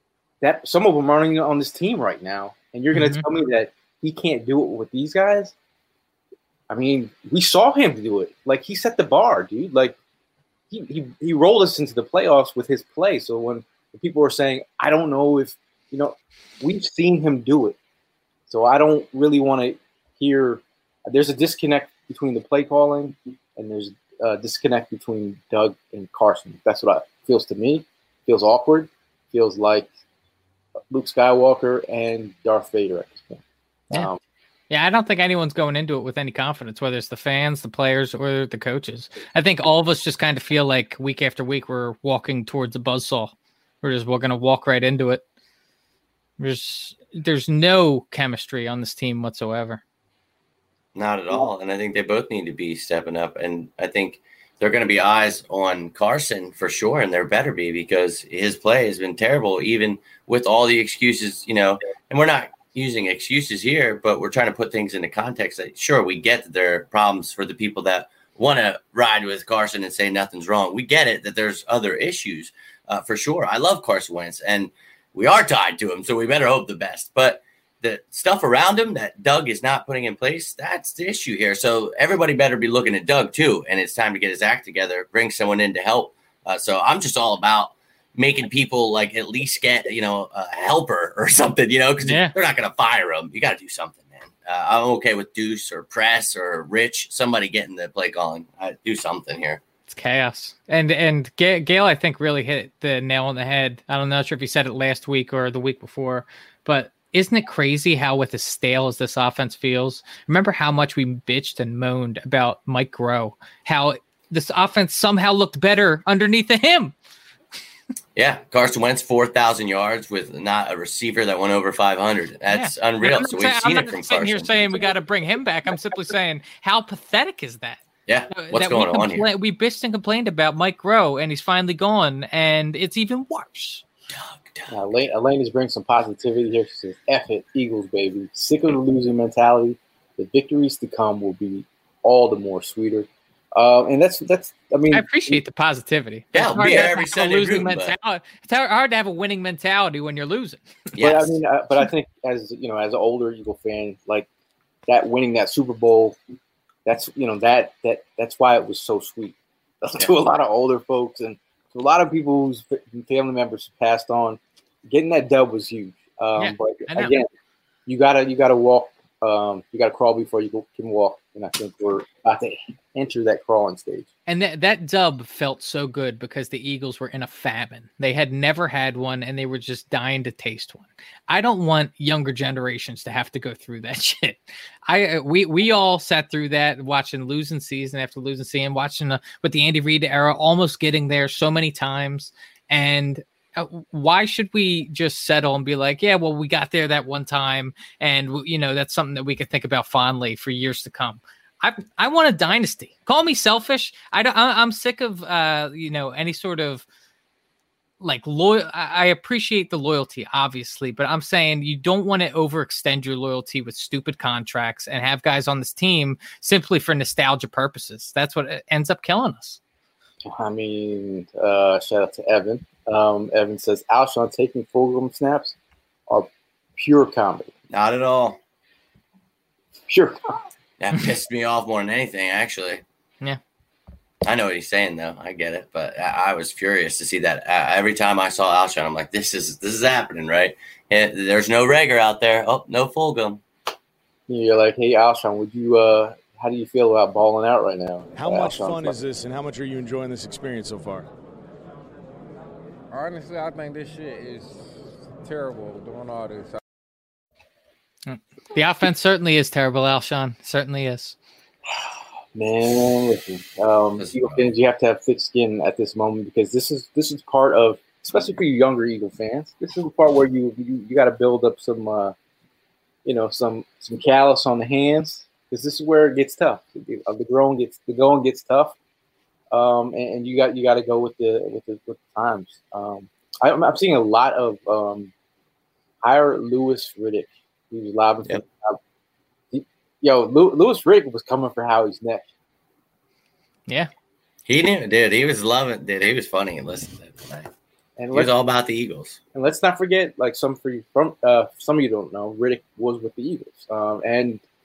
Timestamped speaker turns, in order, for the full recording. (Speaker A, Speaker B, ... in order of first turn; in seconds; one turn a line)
Speaker A: 0.4-5.5
Speaker B: 2.9-3.2
Speaker A: 6.7-9.9
Speaker A: 10.7-17.8
Speaker A: 18.5-29.9
Speaker A: 30.9-34.2
Speaker B: 34.7-45.2
Speaker B: 46.4-49.8
Speaker C: 50.9-99.6
Speaker B: 92.0-92.3
Speaker B: 99.9-116.9
Speaker C: 118.2-124.8
Speaker B: 122.5-133.8
Speaker C: 128.1-129.2
Speaker C: 134.1-134.8
Speaker A: 134.7-145.4
Speaker B: 144.9-150.6
Speaker C: 146.3-147.9
Speaker C: 150.9-151.3
Speaker A: 151.0-154.3
Speaker A: 154.9-156.2
Speaker A: 156.8-167.3
Speaker B: 166.4-167.2
Speaker A: 167.8-174.1
Speaker B: 174.3-206.8
Speaker B: 208.0-219.6
Speaker A: 220.2-225.6
Speaker A: 226.1-227.5
Speaker C: 227.7-228.4
Speaker A: 229.9-230.4
Speaker C: 230.8-232.8
Speaker C: 234.2-243.4
Speaker A: 244.3-249.0
Speaker D: 248.1-251.1
Speaker E: 252.9-256.6
Speaker B: 258.1-261.2
Speaker A: 262.3-272.1
Speaker C: 264.0-264.4
Speaker A: 273.0-278.8
Speaker A: 279.5-285.1
Speaker A: 286.0-288.8
Speaker A: 289.5-292.3
Speaker C: 294.5-297.5
Speaker A: 298.0-298.3
Speaker C: 298.1-299.2
Speaker A: 299.3-304.4